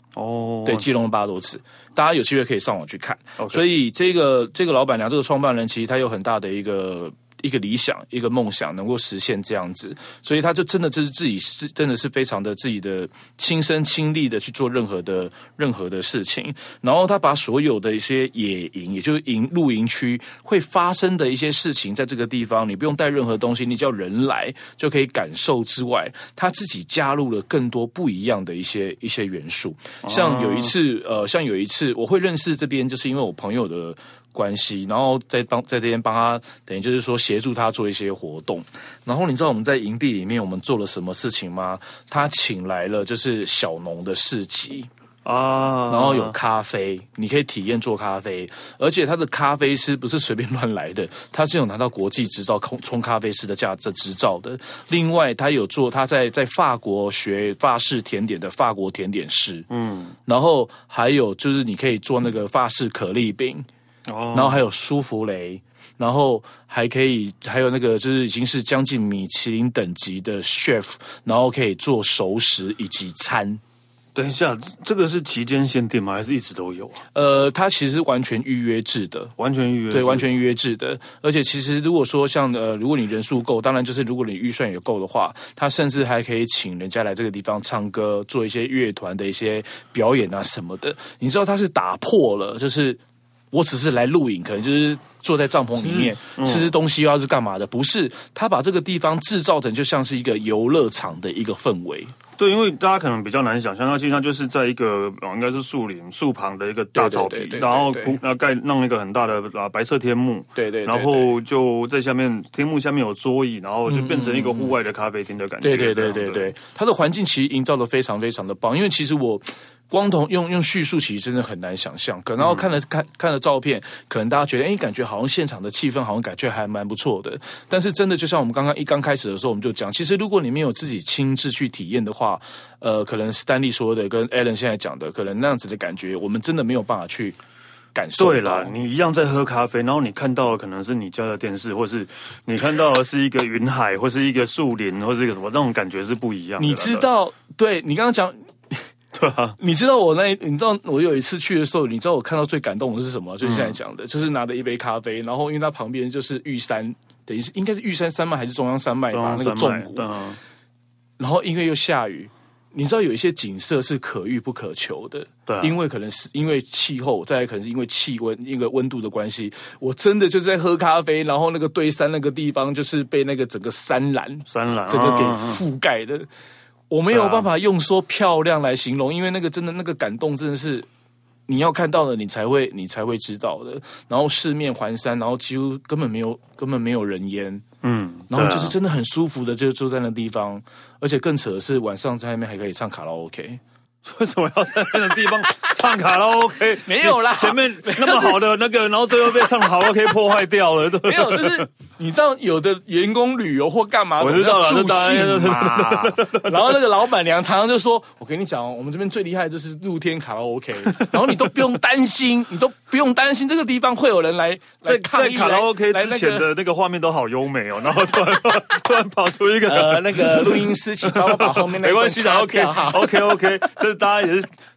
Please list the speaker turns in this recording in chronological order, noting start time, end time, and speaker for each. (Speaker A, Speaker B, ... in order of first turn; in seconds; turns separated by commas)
Speaker A: 0.1-0.9, Speaker B: 0.6-44.9, Speaker A: 3.4-3.6, Speaker A: 30.0-30.7, Speaker A: 45.2-46.4, Speaker B: 45.9-59.7, Speaker A: 59.7-60.1, Speaker B: 60.2-63.7, Speaker A: 64.1-64.6, Speaker B: 64.3-73.6, Speaker A: 74.1-77.0, Speaker B: 77.1-79.3, Speaker A: 79.4-80.3, Speaker B: 79.9-93.0, Speaker B: 93.5-102.1, Speaker A: 95.8-96.7, Speaker A: 102.4-116.5, Speaker B: 106.9-108.2, Speaker B: 110.5-111.3, Speaker B: 113.9-114.7, Speaker B: 115.6-137.4, Speaker A: 122.4-122.7, Speaker B: 137.9-138.7, Speaker A: 138.2-147.1, Speaker B: 146.6-148.8, Speaker A: 149.1-149.6, Speaker B: 149.6-160.1, Speaker A: 153.4-153.8, Speaker A: 159.1-160.4, Speaker B: 161.2-176.3, Speaker A: 165.5-165.8, Speaker A: 174.5-175.6, Speaker B: 176.9-180.9, Speaker A: 177.1-177.5, Speaker B: 181.5-187.6, Speaker A: 187.8-188.7, Speaker B: 188.3-193.6, Speaker A: 194.0-201.7, Speaker B: 196.8-198.4, Speaker B: 199.3-199.6, Speaker B: 201.0-216.5, Speaker A: 204.2-206.8, Speaker A: 210.8-211.6, Speaker A: 214.8-224.5, Speaker B: 219.6-223.6